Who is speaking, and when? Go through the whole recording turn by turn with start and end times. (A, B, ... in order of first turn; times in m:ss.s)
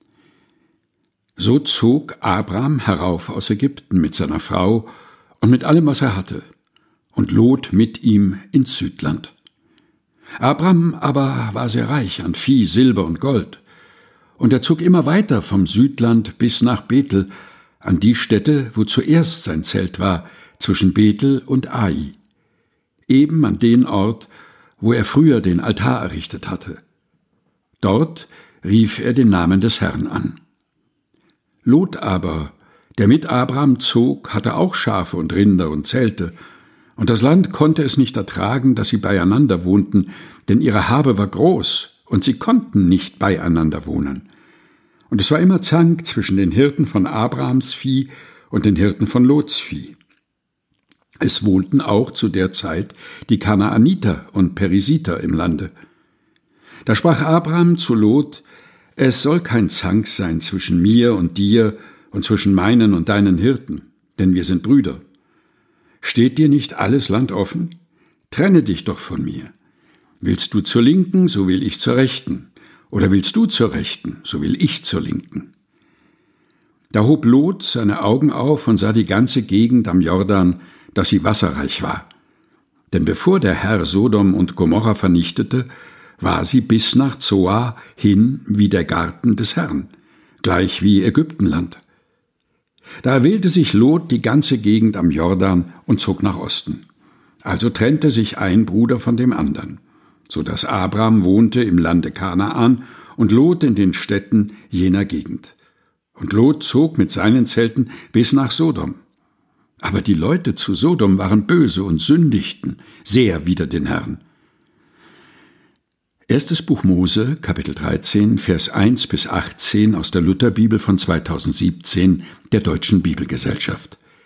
0:01.4-0:06.4 A
0:07.1-0:09.3 A
0:10.4-0:13.6 A
0:14.4-0:17.3 A
0:17.8-0:22.2 A
0:23.1-0:24.3 A
0:24.8-0:26.8 A
0:27.8-0:30.4 A
0:31.6-0:36.3 A
0:37.0-0:44.2 A
0:45.1-0:50.0 A
0:51.2-0:55.7 A
0:56.8-0:58.4 A
0:59.0-1:05.0 A
1:06.0-1:07.7 A
1:08.3-1:09.5 A
1:10.2-1:15.5 A
1:16.9-1:22.1 A
1:22.9-1:25.7 A
1:26.2-1:29.9 A
1:30.4-1:31.8 A
1:33.0-1:36.8 A
1:37.4-1:45.5 A
1:46.2-1:49.0 A
1:49.8-1:54.2 A
1:56.3-2:04.0 A